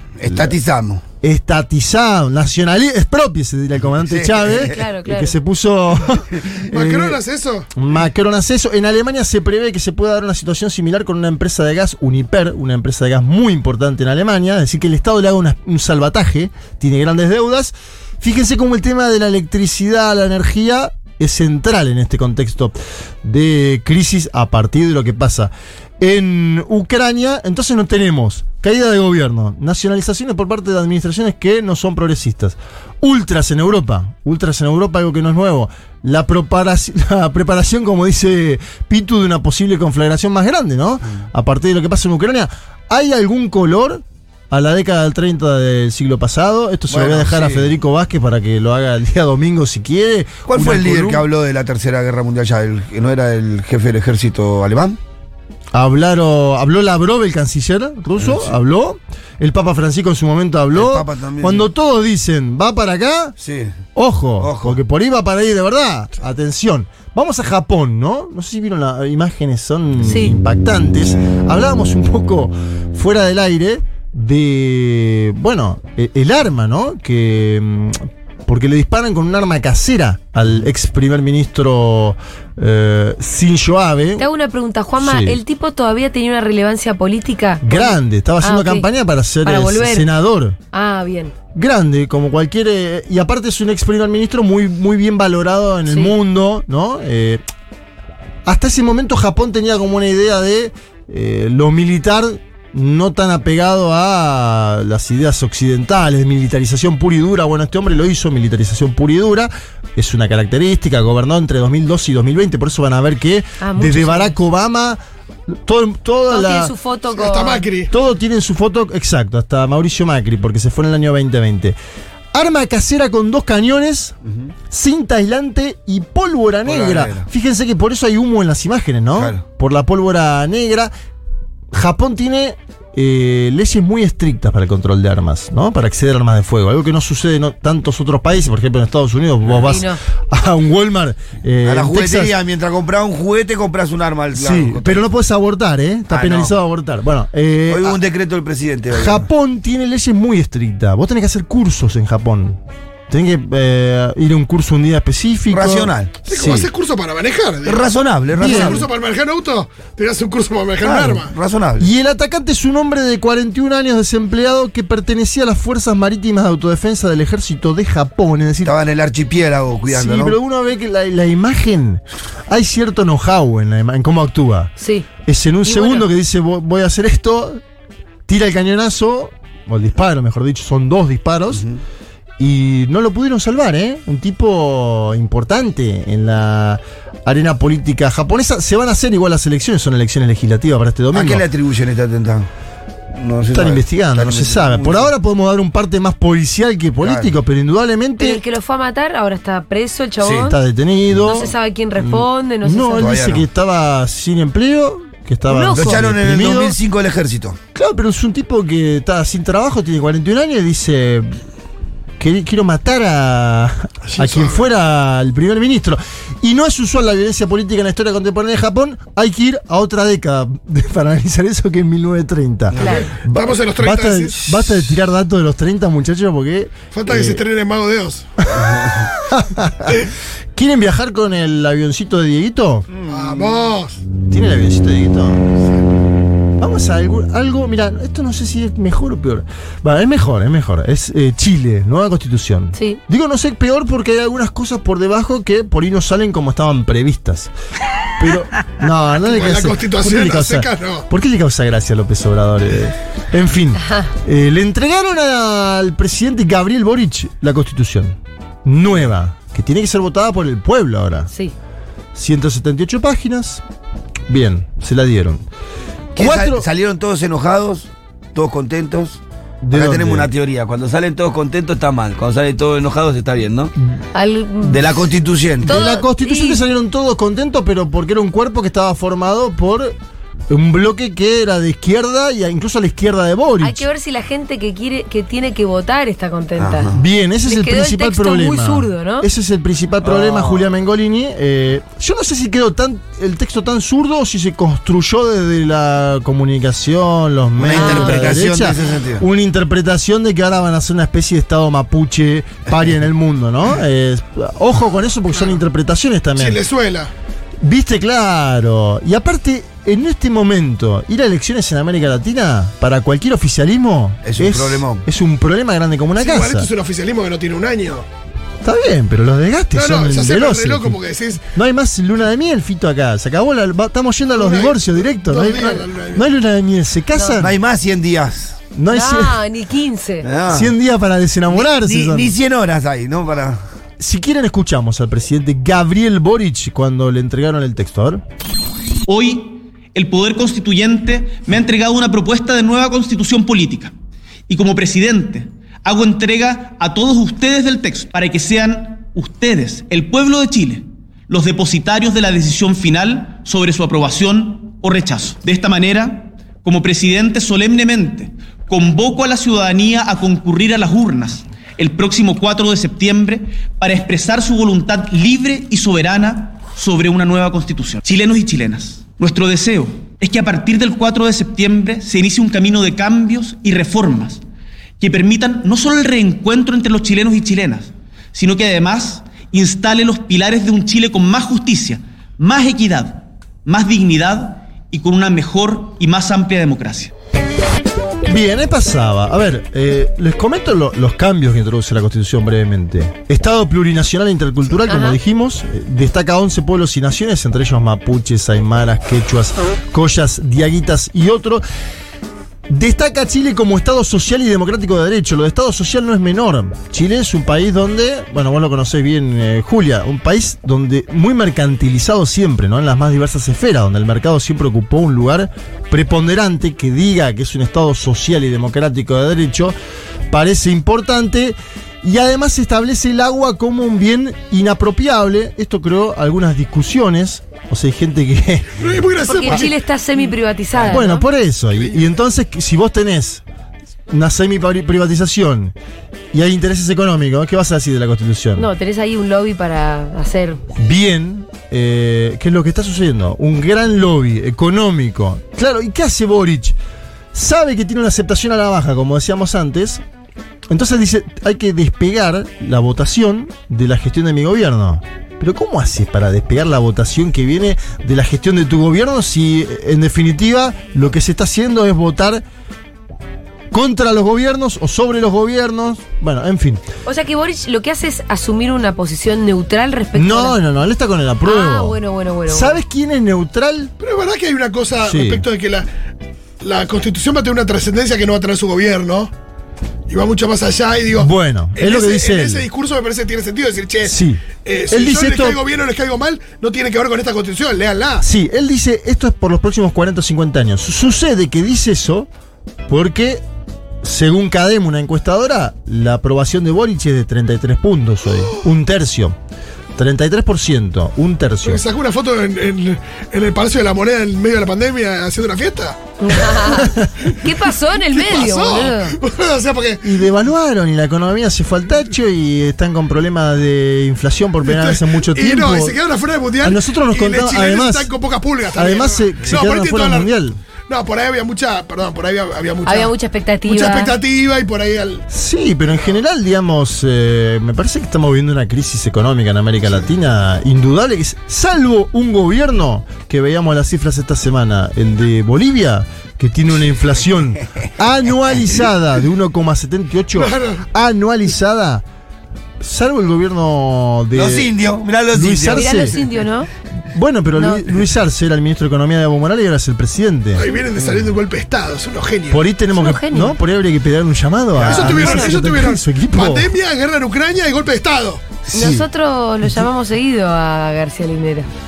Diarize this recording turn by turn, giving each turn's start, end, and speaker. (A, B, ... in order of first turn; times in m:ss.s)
0:00.2-0:01.0 A
0:00.2-0:00.5 B
0:01.2-0:07.2 B
0:03.9-0:04.7 A
0:04.6-0:05.3 C
0:06.7-0:07.7 D
0:07.7-0:51.2 B
0:46.9-0:47.7 A
0:50.5-0:55.0 A
0:55.7-1:03.4 B
0:58.2-0:58.5 A
1:00.7-1:01.7 A
1:03.4-1:03.8 A
1:03.9-1:24.2 B
1:04.4-1:04.8 A
1:10.0-1:10.3 C
1:24.2-1:28.9 C
1:25.0-1:25.4 B
1:27.6-1:30.6 B
1:29.4-1:30.1 C
1:30.7-1:31.3 C
1:31.5-1:37.4 B
1:35.8-1:36.1 C
1:38.4-1:56.7 B
1:53.6-1:54.3 C
1:56.3-1:57.7 C
1:57.1-1:57.9 D
1:57.9-2:01.8 B
2:02.3-2:04.2 B
2:04.7-2:10.9 B
2:06.6-2:07.3 A
2:09.1-2:09.4 A
2:11.7-2:22.3 B
2:19.6-2:20.0 C
2:21.6-2:25.0 A
2:24.3-2:28.0 B
2:26.1-2:26.5 A
2:27.7-2:29.2 A
2:28.9-2:36.7 B
2:35.5-2:36.2 A
2:36.2-2:41.3 D
2:37.6-2:38.8 A
2:38.4-2:38.9 B
2:40.8-2:41.9 A
2:41.8-2:48.7 B
2:48.6-2:50.4 A
2:49.9-2:54.7 B
2:54.8-2:55.0 C
2:55.2-2:57.6 B
2:55.6-2:56.1 C
2:58.3-3:01.6 B
3:01.5-3:01.8 A
3:02.4-3:11.4 B
3:11.1-3:12.5 A
3:13.1-3:15.1 A
3:13.5-3:18.4 B
3:17.0-3:17.3 A
3:18.2-3:20.6 C
3:20.4-3:26.8 B
3:21.2-3:23.1 C
3:23.0-3:23.4 A
3:25.5-3:26.0 C
3:25.7-3:27.6 A
3:27.7-3:31.4 B
3:32.2-3:47.4 B
3:34.0-3:34.6 D
3:42.8-3:43.1 C
3:42.9-3:44.4 D
3:46.9-3:48.3 D
3:49.1-3:52.9 B
3:52.9-3:53.6 A
3:53.1-3:54.0 D
3:54.3-3:55.4 B
3:56.6-4:07.5 B
4:02.7-4:03.0 C
4:08.2-4:21.3 B
4:09.2-4:11.0 D
4:22.1-4:23.6 B
4:24.3-4:25.4 B
4:26.1-4:29.2 A
4:26.2-4:26.6 B
4:29.6-4:30.3 B
4:29.7-4:33.7 A
4:34.1-4:34.8 C
4:34.6-4:35.8 A
4:35.6-4:36.6 C
4:35.6-4:39.9 B
4:40.5-4:43.8 B
4:43.6-4:46.9 C
4:46.6-4:47.0 A
4:46.9-5:06.6 B
4:47.4-4:49.3 C
4:50.0-4:50.6 A
4:57.6-4:59.2 A
4:57.7-4:58.3 C
5:06.4-5:07.1 D
5:07.6-5:16.7 B
5:14.2-5:15.0 A
5:16.2-5:18.0 D
5:18.6-5:21.0 B
5:19.7-5:21.4 D
5:21.5-5:27.6 B
5:24.3-5:26.3 D
5:27.4-5:28.6 A
5:28.7-5:29.4 B
5:28.9-5:30.3 C
5:30.2-5:30.7 A
5:30.5-5:32.3 B
5:31.5-5:33.6 A
5:34.0-5:38.2 B
5:39.0-5:43.9 E
5:44.5-6:14.4 E
6:15.0-6:27.1 E
6:28.2-6:41.6 B
6:34.9-6:35.2 C
6:42.7-6:59.7 B
7:00.3-7:09.6 B
7:08.8-7:09.8 D
7:09.2-7:11.2 C
7:10.7-7:11.1 D
7:10.9-7:13.4 B
7:11.7-7:12.1 D
7:14.1-7:15.7 B
7:16.3-7:18.7 B
7:18.6-7:20.6 C
7:20.8-7:26.8 B
7:27.3-7:30.0 B
7:30.7-7:42.4 B
7:43.7-7:46.8 B
7:47.0-7:50.6 C
7:50.1-7:53.9 B
7:51.4-7:52.8 C
7:54.0-7:55.9 D
7:55.0-7:55.4 B
7:56.6-7:59.3 D
8:00.1-8:08.2 D
8:01.1-8:02.7 B
8:04.0-8:05.6 B
8:08.2-8:12.3 B
8:12.9-8:13.4 B
8:14.0-8:19.4 B
8:18.4-8:18.6 D
8:20.0-8:21.8 B
8:21.6-8:26.7 D
8:26.2-8:29.2 C
8:26.8-8:27.1 B
8:28.1-8:30.2 D
8:30.0-8:36.0 B
8:34.6-8:40.3 D
8:36.6-8:38.1 B
8:38.7-8:40.6 B
8:40.9-8:43.1 D
8:42.8-8:44.1 C
8:43.7-8:45.2 D
8:45.3-9:02.0 B
9:00.4-9:00.8 D
9:02.8-9:04.7 B
9:04.3-9:06.0 A
9:05.3-9:06.2 B
9:05.7-9:06.7 C
9:07.1-9:10.6 B
9:07.6-9:07.8 C
9:10.5-9:12.6 D
9:12.5-9:16.7 B
9:12.9-9:13.6 C
9:14.8-9:15.2 A
9:14.8-9:18.4 D
9:15.1-9:15.5 C
9:18.7-9:21.7 C
9:18.7-9:19.0 B